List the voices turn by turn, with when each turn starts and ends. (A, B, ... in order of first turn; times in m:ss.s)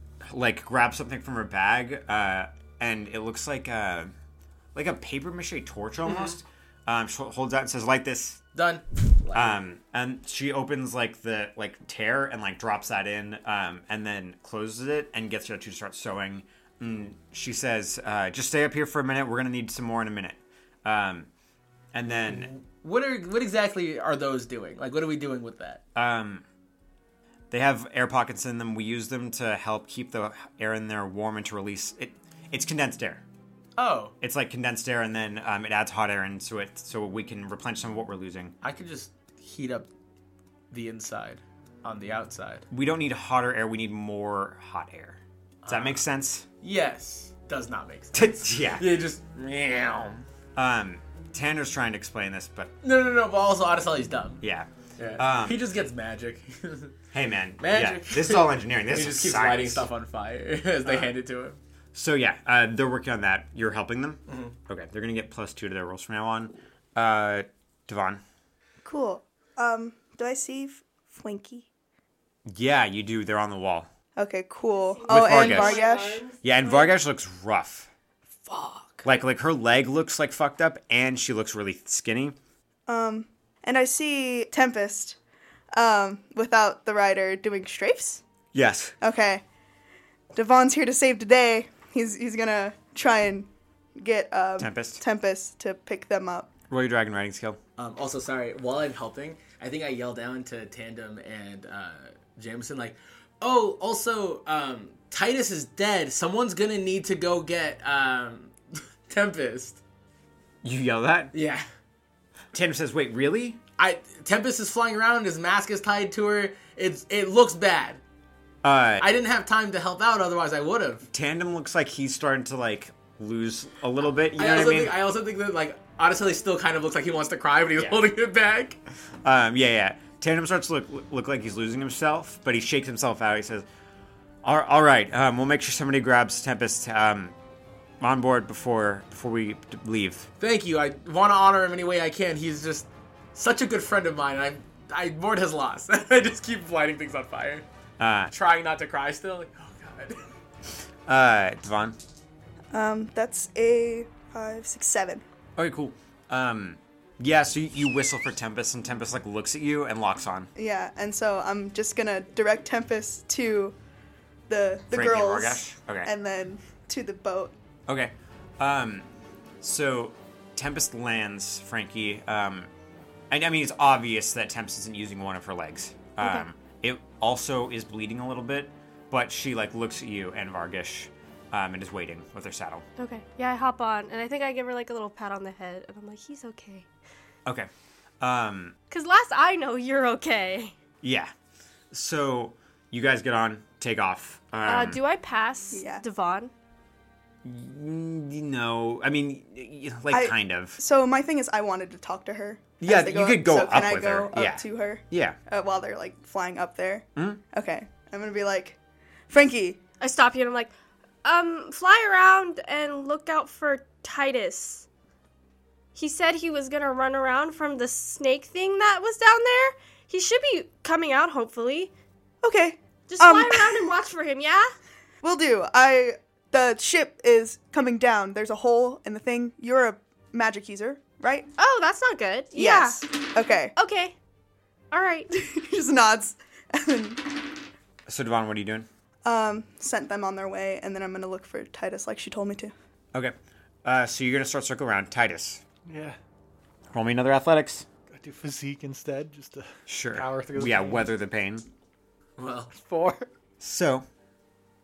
0:00.2-0:04.1 A
0:04.7-0:08.4 A
0:08.5-0:09.6 B
0:09.3-0:21.3 A
0:21.9-0:22.5 A
0:22.2-0:25.8 B
0:25.9-0:26.4 A
0:27.5-0:33.2 A
0:33.8-0:34.1 B
0:34.2-0:38.5 A
0:38.6-0:39.9 B
0:40.7-0:42.6 B
0:42.7-0:46.4 A
0:45.6-0:46.0 B
0:46.6-0:50.2 B
0:48.1-0:48.8 A
0:50.6-0:52.7 A
0:52.8-0:54.4 B
0:54.4-0:55.6 A
0:55.0-0:56.9 B
0:57.1-0:59.9 A
0:57.6-1:01.6 B
1:01.9-1:08.2 A
1:04.3-1:04.6 B
1:08.8-1:11.7 C
1:12.5-1:13.9 A
1:14.2-1:16.2 C
1:14.9-1:16.9 D
1:15.1-1:15.8 A
1:16.4-1:17.9 A
1:18.4-1:19.0 C
1:19.0-1:22.4 A
1:22.9-1:25.2 C
1:25.7-1:28.2 C
1:28.5-1:29.0 A
1:29.0-1:29.4 C
1:30.3-1:36.5 C
1:34.6-1:35.0 A
1:36.7-1:37.6 A
1:37.8-1:49.8 B
1:50.6-1:51.3 A
1:51.3-1:51.6 B
1:52.5-1:53.6 A
1:53.8-1:58.0 B
1:58.6-1:59.1 A
1:59.0-2:01.0 B
2:01.1-2:05.0 A
2:04.4-2:08.8 B
2:07.8-2:08.1 A
2:09.2-2:13.7 A
2:14.4-2:17.3 A
2:18.0-2:20.3 A
2:20.4-2:27.6 B
2:28.0-2:28.3 A
2:28.3-2:30.2 B
2:31.1-2:32.0 A
2:32.7-2:35.2 C
2:35.6-2:40.5 A
2:40.6-2:43.7 C
2:44.5-2:47.5 C
2:44.9-2:46.1 A
2:47.9-2:49.0 A
2:49.6-2:52.7 A
2:53.3-3:02.8 A
2:56.2-2:56.5 D
3:03.0-3:06.9 D
3:08.2-3:08.7 A
3:08.9-3:10.7 D
3:11.0-3:11.3 A
3:11.9-3:15.0 A
3:14.6-3:16.5 D
3:15.7-3:16.0 C
3:17.4-3:20.8 A
3:20.1-3:28.8 C
3:22.8-3:25.4 A
3:27.2-3:27.4 A
3:29.3-3:29.8 C
3:30.0-3:30.7 D
3:31.2-3:34.9 D
3:35.9-3:41.9 D
3:42.4-3:43.9 C
3:43.1-3:44.7 D
3:45.2-3:51.5 C
3:51.6-3:53.0 D
3:52.5-3:53.7 C
3:53.7-3:54.1 D
3:54.9-3:55.3 D
3:55.3-3:57.4 C
3:58.1-3:58.9 A
3:59.2-4:02.7 C
4:03.1-4:05.6 A
4:05.8-4:06.2 E
4:06.9-4:07.8 A
4:08.1-4:11.1 E
4:09.9-4:11.6 A
4:12.4-4:12.7 B
4:12.7-4:13.3 E
4:13.6-4:14.0 A